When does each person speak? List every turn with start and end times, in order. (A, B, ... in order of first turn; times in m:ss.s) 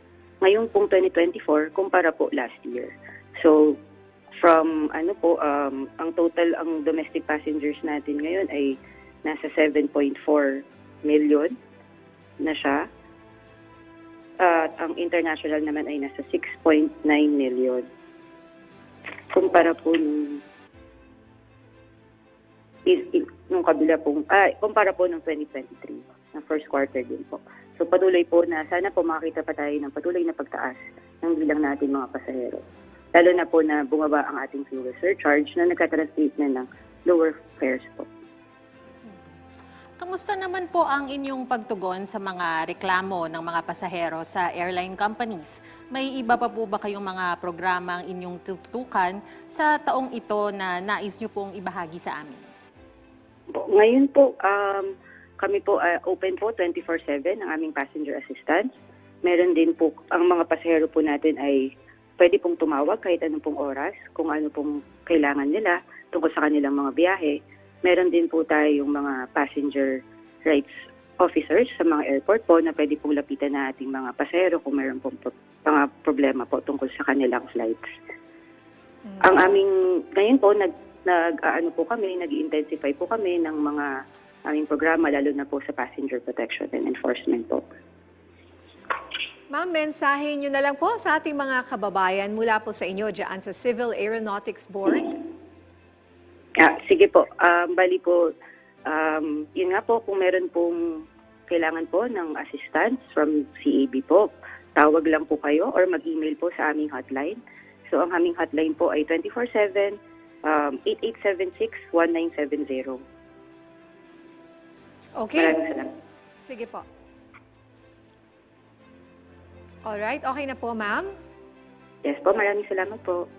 0:00.4-0:03.8 A
0:04.4-0:11.6 A
0:12.4-0:12.8 A
0:14.4-0:17.8 A
0:19.3-0:20.4 A
0:22.8-0:38.1 A
0:40.0-0:52.5 B
0:53.5-0:58.7 A
0:59.2-1:17.8 A
1:19.1-1:19.4 C
1:19.2-1:23.9 A
1:24.5-1:27.6 A
1:29.5-1:35.1 C
1:36.6-1:38.3 A
1:38.9-1:53.0 A
1:55.2-1:55.6 C
1:55.4-1:55.9 A
1:56.4-1:56.8 C
1:59.9-2:01.1 C
2:02.0-2:03.3 A